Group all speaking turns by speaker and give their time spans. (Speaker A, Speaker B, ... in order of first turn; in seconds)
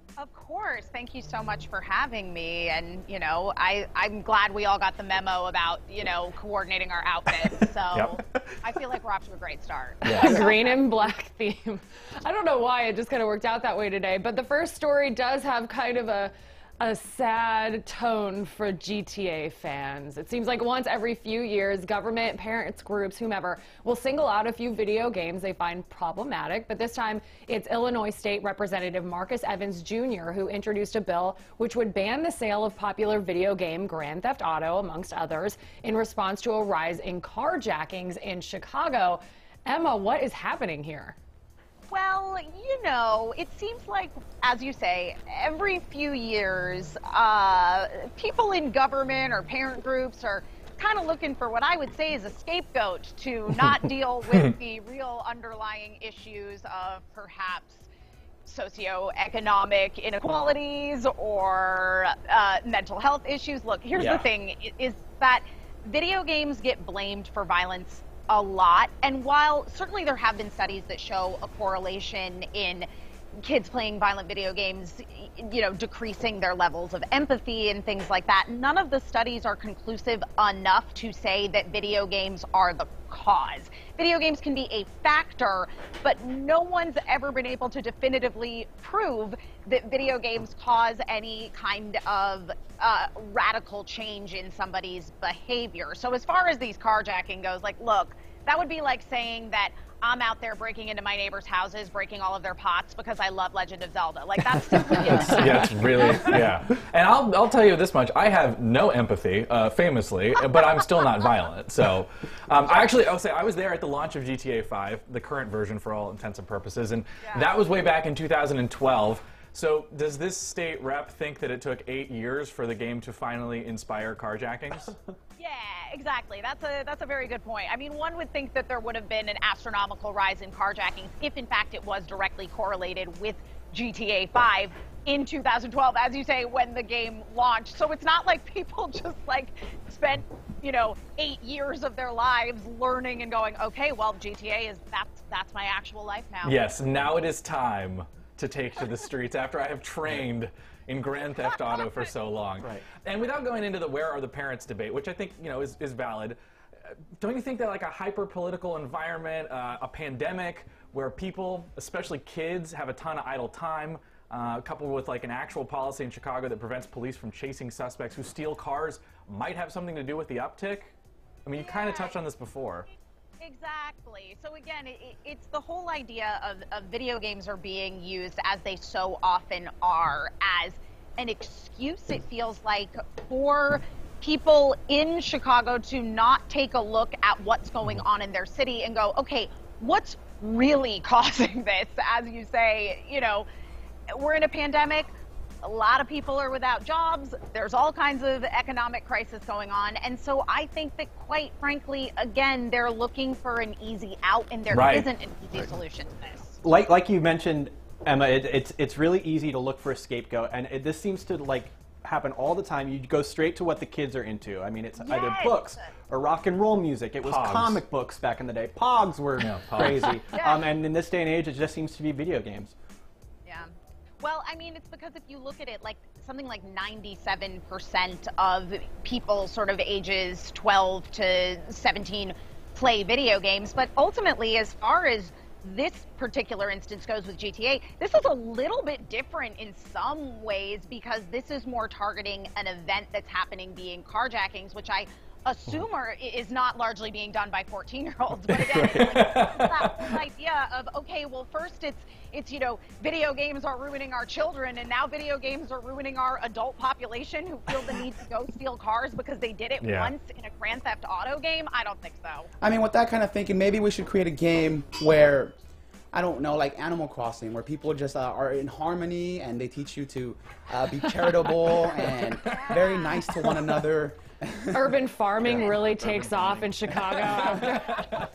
Speaker A: 0.2-10.7, 41.9-57.9, 58.5-72.9, 73.4-105.6, 117.2-117.5, 125.4-146.6, 171.5-172.2, 173.4-193.5, 194.1-195.1, 195.6-206.6, 215.0-215.9, 220.3-220.7, 224.2-262.5, 272.5-273.2
Speaker B: 7.9-8.2, 10.1-10.4, 64.0-64.2, 105.1-125.0, 146.4-156.4, 156.9-172.9, 204.7-205.1, 217.2-217.8, 219.4-220.1, 248.9-249.8, 259.8-260.1, 277.7-278.0
Speaker C: 10.1-41.2, 274.7-278.1
Speaker D: 105.1-106.5, 262.6-265.6, 266.1-275.7
Speaker E: 206.6-222.8, 248.5-249.7, 276.0-276.4